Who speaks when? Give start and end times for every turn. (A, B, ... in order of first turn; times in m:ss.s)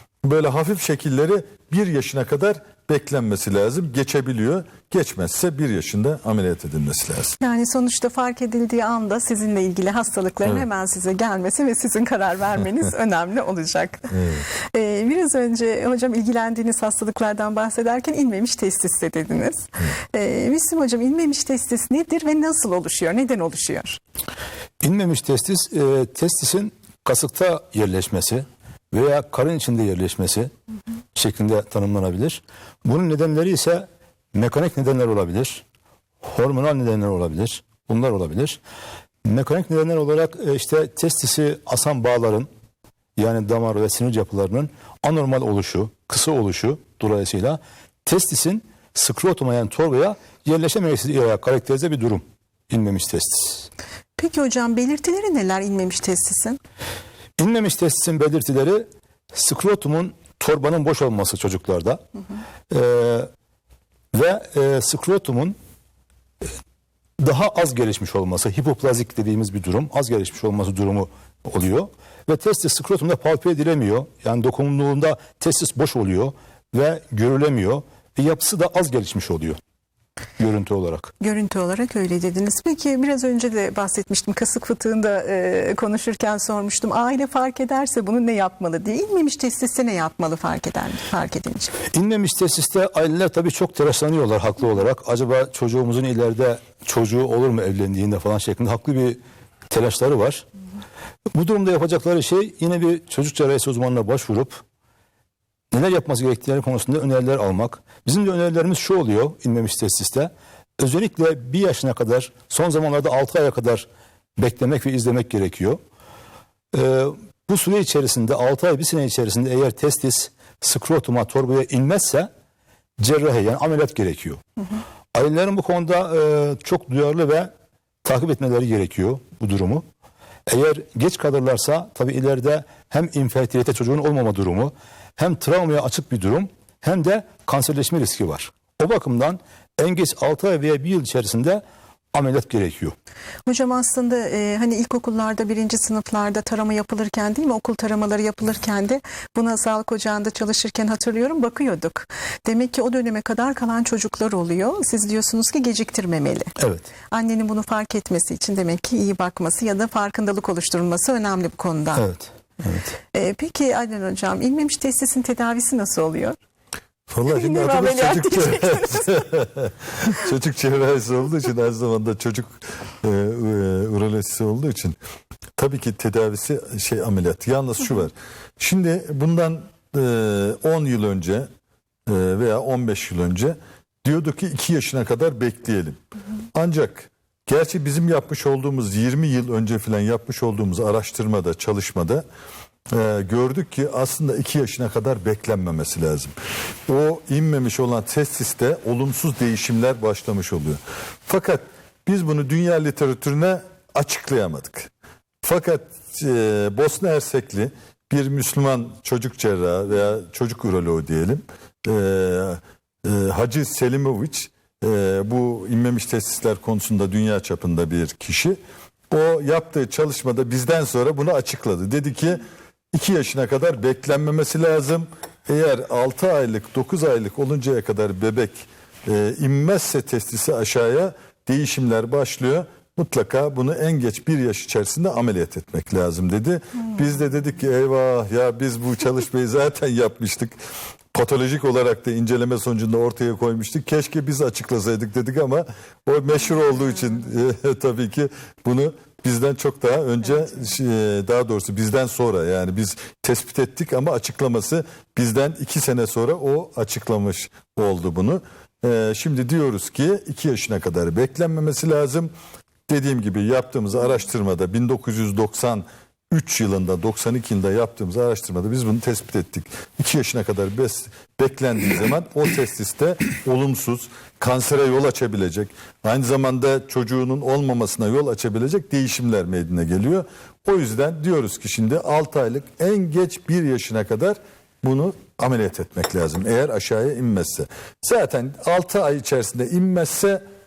0:00.2-0:07.4 A
0:07.4-0:24.0 B
0:14.1-0:14.4 A
0:24.8-0:30.5 C
0:31.1-0:35.6 C
0:36.2-0:38.6 C
0:39.2-0:42.5 C
0:43.2-0:53.7 C
0:54.2-0:56.6 B
0:57.4-1:02.0 C
1:02.7-1:03.3 C
1:04.1-1:05.6 C
1:07.2-1:19.6 C
1:20.4-1:21.1 C
1:21.2-1:31.7 B
1:31.9-1:40.4 C
1:41.3-1:44.6 C
1:45.7-1:55.8 C
1:56.7-2:02.3 C
2:03.0-2:04.4 C
2:05.1-2:07.5 C
2:08.0-2:09.8 C
2:10.5-2:21.6 C
2:22.1-2:22.9 C
2:23.4-2:36.5 B
2:36.6-2:36.9 C
2:37.1-2:42.1 B
2:41.9-2:43.0 C
2:43.1-2:46.4 B
2:47.1-2:55.0 A
2:47.3-2:49.2 B
2:55.6-3:01.5 A
3:02.0-3:06.0 A
3:06.5-3:12.2 A
3:12.9-3:16.3 A
3:16.9-3:24.9 A
3:25.4-4:00.6 A
4:01.1-4:22.3 A
4:22.9-4:50.4 A